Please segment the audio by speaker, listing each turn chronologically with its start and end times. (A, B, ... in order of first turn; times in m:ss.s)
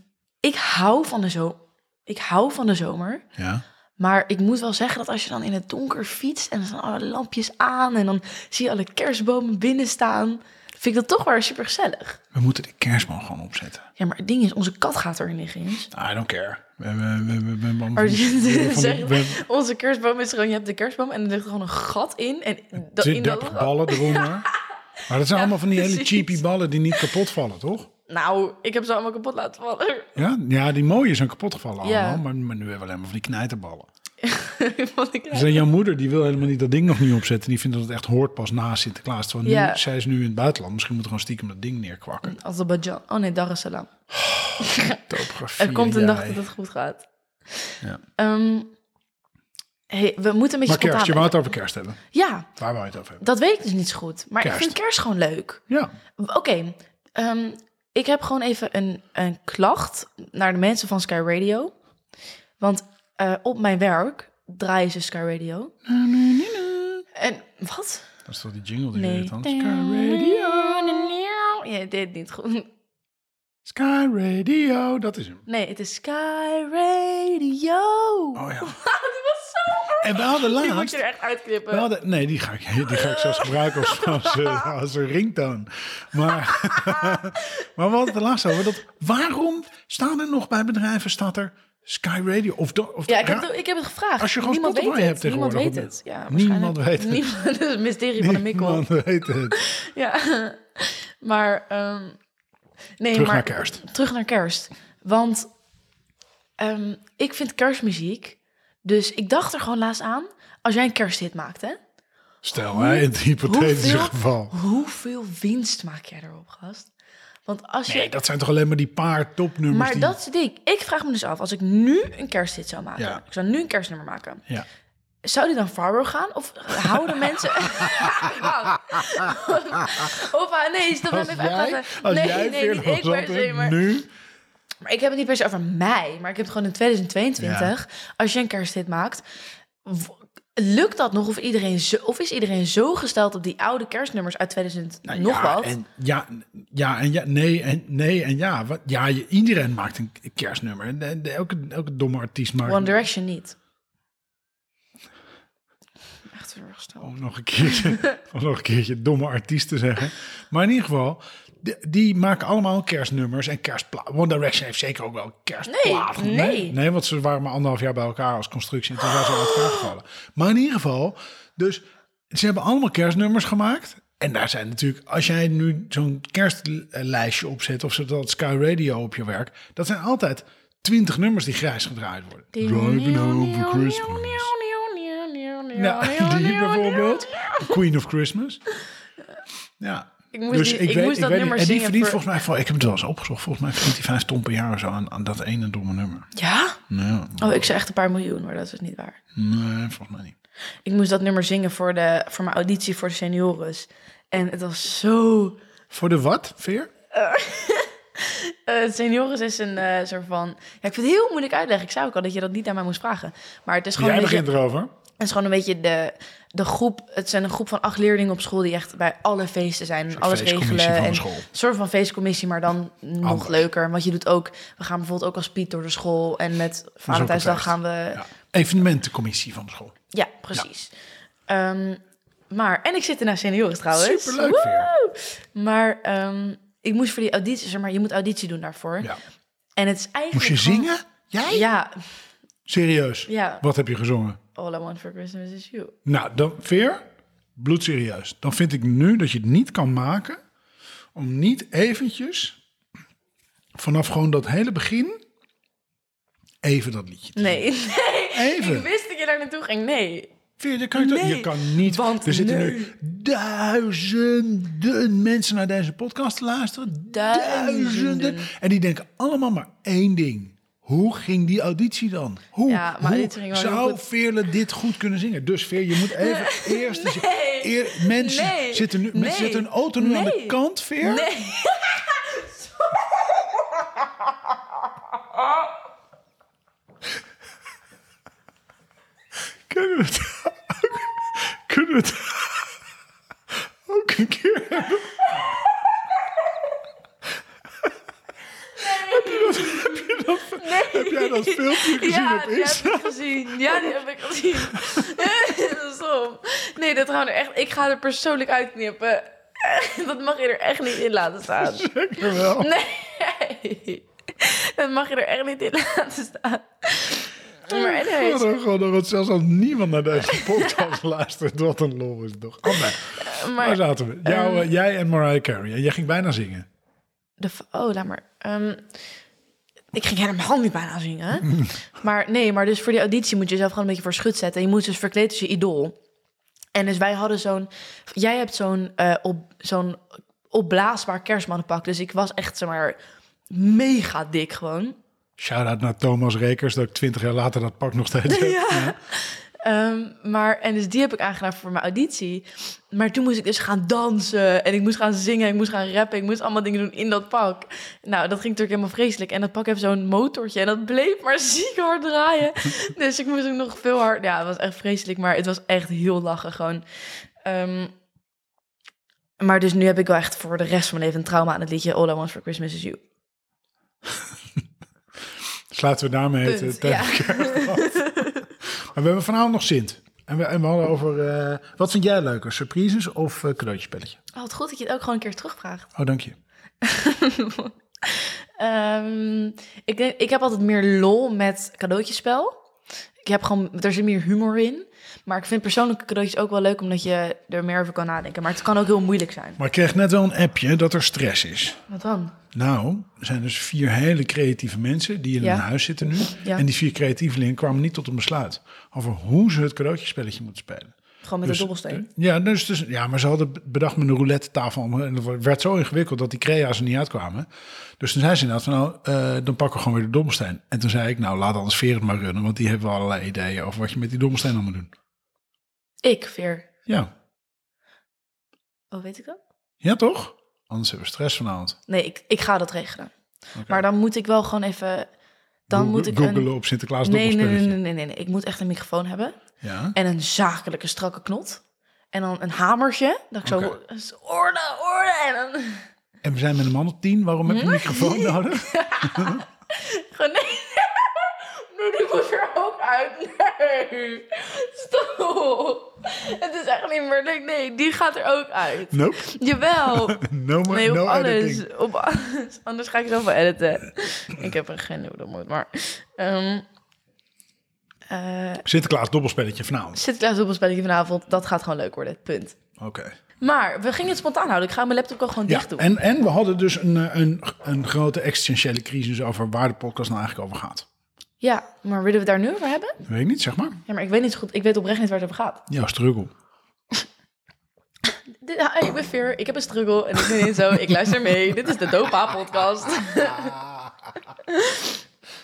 0:00.4-0:03.2 A
0:03.4-0:03.6 B
0:04.0-0:12.2 A
0:12.3-0:13.8 B
0:14.0-0:15.9 A
0:15.9-0:19.4 B
0:18.0-0:24.6 A
0:23.0-0:24.5 B
0:25.1-0:27.9 B
0:25.3-0:26.4 A
0:28.1-0:30.1 A
0:30.2-0:33.9 B
0:31.8-0:32.2 A
0:34.2-0:35.7 A
0:35.3-0:42.4 B
0:39.4-0:39.8 A
0:42.2-0:43.9 A
0:44.1-0:46.4 B
0:44.6-0:48.7 A
0:49.9-0:51.5 A
0:50.6-0:52.0 B
0:52.1-0:52.5 A
0:52.6-0:53.2 B
0:53.2-0:55.6 A
0:54.4-0:54.8 B
0:56.2-1:01.7 A
1:02.6-1:05.7 A
1:05.8-1:07.0 B
1:07.1-1:08.1 A
1:08.2-1:11.1 B
1:08.9-1:12.7 A
1:13.6-1:15.4 B
1:15.5-1:21.9 A
1:18.3-1:18.8 B
1:20.0-1:21.0 B
1:21.7-1:33.5 B
1:22.8-1:24.7 A
1:26.2-1:27.4 A
1:33.1-1:38.8 A
1:34.2-1:37.2 B
1:38.2-1:39.6 B
1:39.5-1:42.2 A
1:43.0-1:45.5 A
1:43.1-1:43.8 B
1:46.6-1:51.8 A
1:52.4-1:54.5 B
1:52.7-1:56.9 A
1:57.4-1:58.1 A
1:57.9-2:00.1 B
1:59.7-2:04.4 A
2:03.0-2:03.2 B
2:05.2-2:13.8 A
2:06.8-2:10.1 B
2:11.0-2:14.1 B
2:14.8-2:19.2 A
2:17.4-2:17.7 B
2:19.8-2:25.7 A
2:25.1-2:33.0 B
2:32.6-2:33.6 A
2:36.3-2:38.2 A
2:37.0-3:04.5 B
2:45.7-2:46.8 A
2:49.0-2:49.9 A
3:02.5-3:07.8 A
3:05.7-3:08.6 B
3:09.8-3:16.3 B
3:10.3-3:12.2 A
3:16.3-3:16.8 A
3:16.9-3:17.6 B
3:17.4-3:19.2 A
3:19.3-3:20.3 B
3:20.8-3:25.6 A
3:25.9-3:26.9 B
3:27.1-3:34.5 A
3:34.0-3:34.9 B
3:35.2-3:48.2 A
3:40.1-3:41.4 B
3:43.2-3:43.6 B
3:47.1-3:49.9 B
3:50.1-3:50.9 A
3:51.5-3:59.1 A
3:53.9-3:54.9 B
3:59.8-4:00.9 A
4:00.3-4:01.7 B
4:01.4-4:02.0 A
4:02.6-4:04.4 B
4:03.3-4:03.6 A
4:04.5-4:05.9 A
4:06.0-4:07.0 B
4:07.6-4:10.4 B
4:11.1-4:12.6 B
4:13.8-4:15.2 B
4:16.6-4:17.7 B
4:17.4-4:20.3 A
4:18.3-4:18.9 B
4:20.6-4:41.3 B
4:20.9-4:22.9 A
4:27.1-4:28.5 A
4:32.7-4:34.0 A
4:36.0-4:45.6 A
4:49.7-4:52.8 B
4:53.8-4:55.4 B
4:55.2-4:55.9 A
4:58.7-5:18.5 A
4:58.8-5:03.9 B
5:04.7-5:05.2 B
5:11.6-5:12.7 B
5:17.6-5:26.7 B
5:20.2-5:21.0 A
5:22.6-5:24.7 A
5:27.4-5:28.9 A
5:29.9-5:36.0 A
5:36.7-5:43.0 A
5:43.5-5:45.0 A
5:45.4-5:49.0 B
5:48.2-6:06.8 A
6:07.4-6:07.9 A
6:09.4-6:13.0 A
6:15.7-6:24.2 B
6:16.4-6:18.5 A
6:24.3-6:25.9 A
6:26.0-6:26.4 B
6:26.8-6:32.6 A
6:33.2-6:39.6 A
6:39.6-6:41.8 B
6:41.9-6:42.4 A
6:42.5-6:57.5 B
6:45.4-6:46.6 A
6:51.2-6:52.1 A
6:58.0-7:04.9 B
7:06.0-7:06.7 A
7:08.9-7:09.4 A
7:09.8-7:11.8 B
7:11.9-7:13.1 A
7:13.6-7:13.8 B
7:13.7-7:15.1 A
7:15.7-7:17.8 B
7:15.7-7:16.5 A
7:17.0-7:19.4 A
7:19.6-7:20.0 B
7:19.9-7:21.6 A
7:22.1-7:25.8 A
7:23.4-7:23.8 B
7:26.2-7:29.4 B
7:27.4-7:46.6 A
7:38.9-7:41.6 B
7:48.1-7:48.6 A
7:48.6-7:50.0 B
7:49.9-7:52.6 A
7:52.8-7:53.1 B
7:53.4-7:55.9 A
7:55.5-8:00.8 B
8:01.4-8:03.0 A
8:03.0-8:03.8 B
8:03.8-8:05.6 A
8:05.7-8:06.3 B
8:08.4-8:13.7 A
8:10.4-8:11.1 B
8:14.4-8:15.0 A